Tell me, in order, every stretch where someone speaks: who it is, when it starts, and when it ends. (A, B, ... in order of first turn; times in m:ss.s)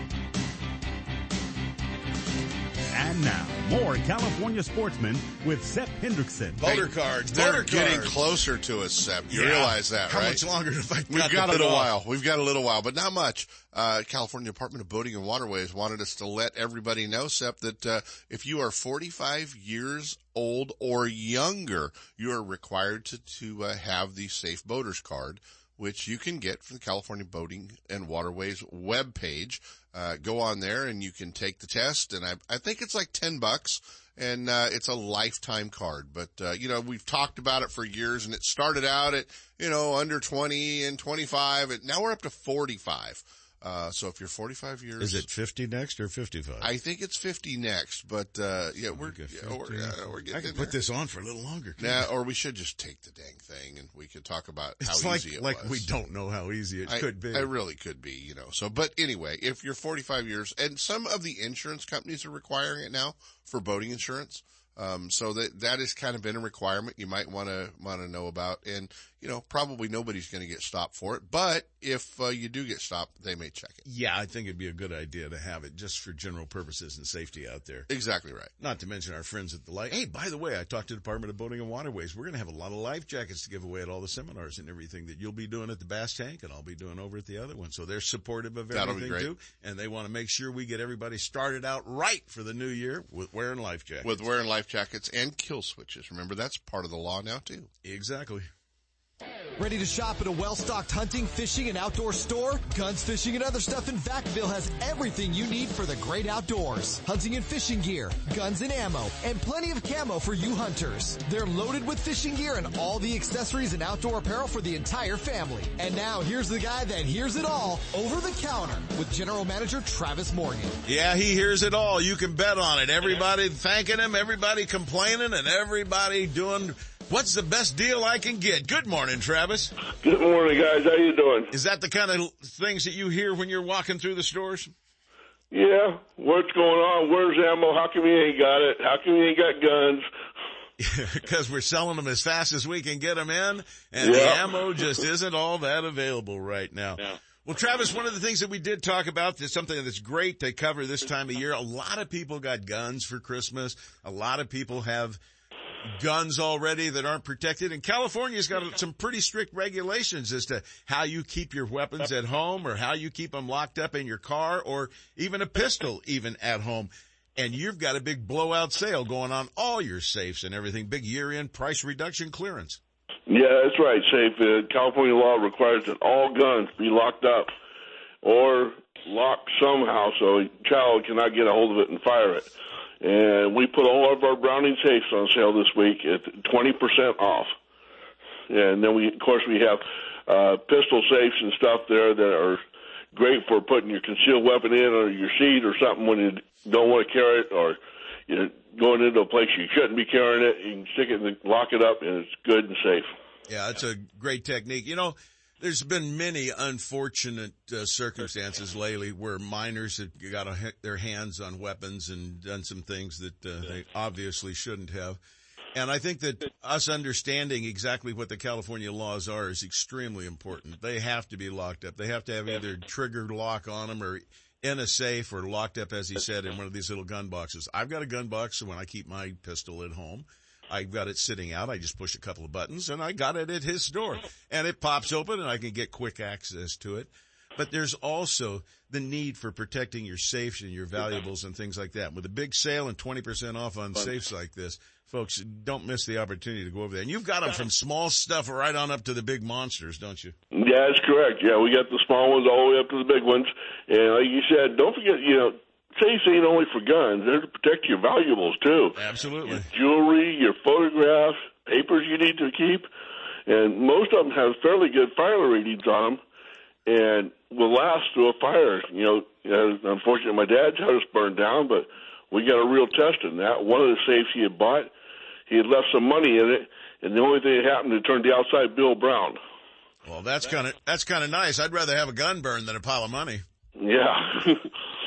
0:02.9-0:06.8 A
0:06.6-0:08.2 B
0:06.7-0:10.4 C
0:09.3-0:11.9 B
0:11.1-0:45.3 C
0:45.0-0:46.7 B
0:46.6-0:50.8 C
0:48.9-0:52.1 B
0:51.8-0:55.9 C
0:54.8-0:57.5 B
0:56.9-1:13.8 C
1:13.8-1:17.9 B
1:17.9-1:18.5 C
1:18.6-1:34.3 B
1:28.7-1:29.3 C
1:34.0-1:37.7 C
1:37.8-1:38.5 B
1:39.6-2:00.8 D
2:00.8-2:09.7 B
2:10.0-2:11.5 E
2:11.5-2:14.7 B
2:15.5-2:20.1 E
2:20.8-2:35.2 B
2:24.0-2:25.0 E
2:35.9-2:52.8 B
2:53.3-2:57.5 E
2:58.2-3:07.5 E
3:08.5-3:12.6 E
3:13.1-3:17.8 E
3:18.3-3:23.1 E
3:23.5-3:35.2 B
3:35.7-4:10.4 B
4:10.5-4:22.9 E
4:19.0-4:19.7 B
4:23.5-4:26.2 E
4:26.9-4:34.9 E
4:35.5-4:39.4 E
4:40.0-4:43.4 B
4:43.8-4:44.7 E